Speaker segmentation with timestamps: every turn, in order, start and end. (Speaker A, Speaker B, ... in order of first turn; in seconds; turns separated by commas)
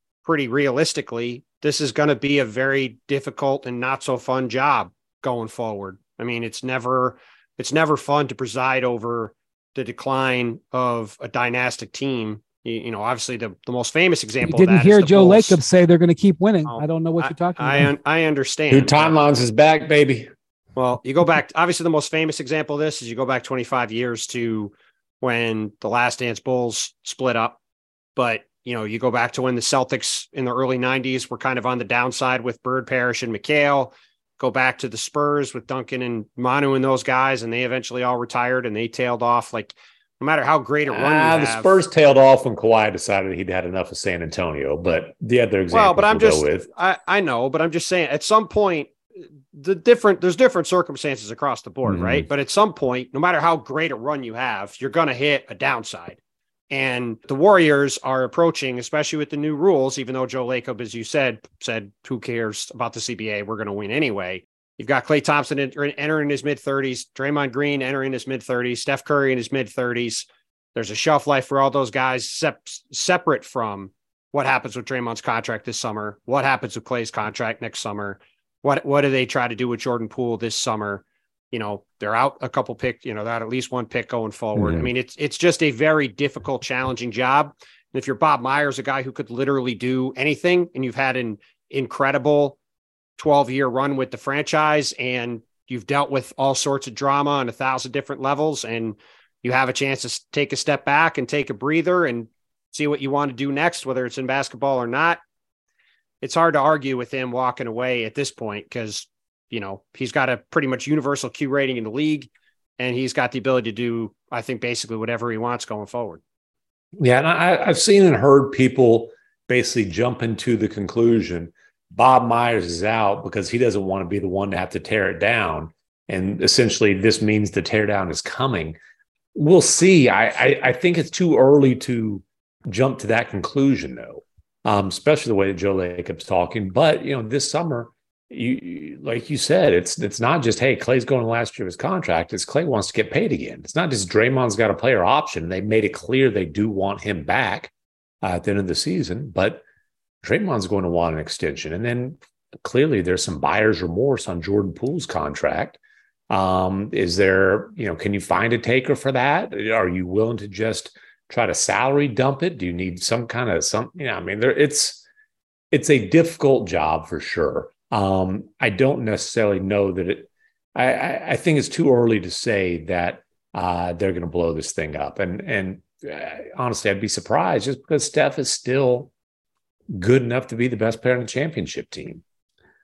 Speaker A: 0.2-15.6, Speaker B: 14.4-17.9, Speaker A: 16.6-19.1, Speaker C: 18.7-20.3, Speaker A: 20.8-27.6, Speaker A: 28.1-41.8, Speaker C: 40.9-46.7, Speaker A: 45.7-48.9, Speaker A: 49.5-56.2, Speaker C: 51.9-52.2, Speaker A: 56.7-92.6, Speaker C: 84.5-84.9, Speaker A: 93.2-105.2, Speaker A: 106.2-116.2, Speaker C: 117.0-128.8, Speaker C: 129.3-147.7, Speaker C: 148.2-149.6, Speaker C: 150.2-155.8, Speaker C: 156.3-165.0, Speaker C: 165.7-179.1, Speaker C: 179.9-182.2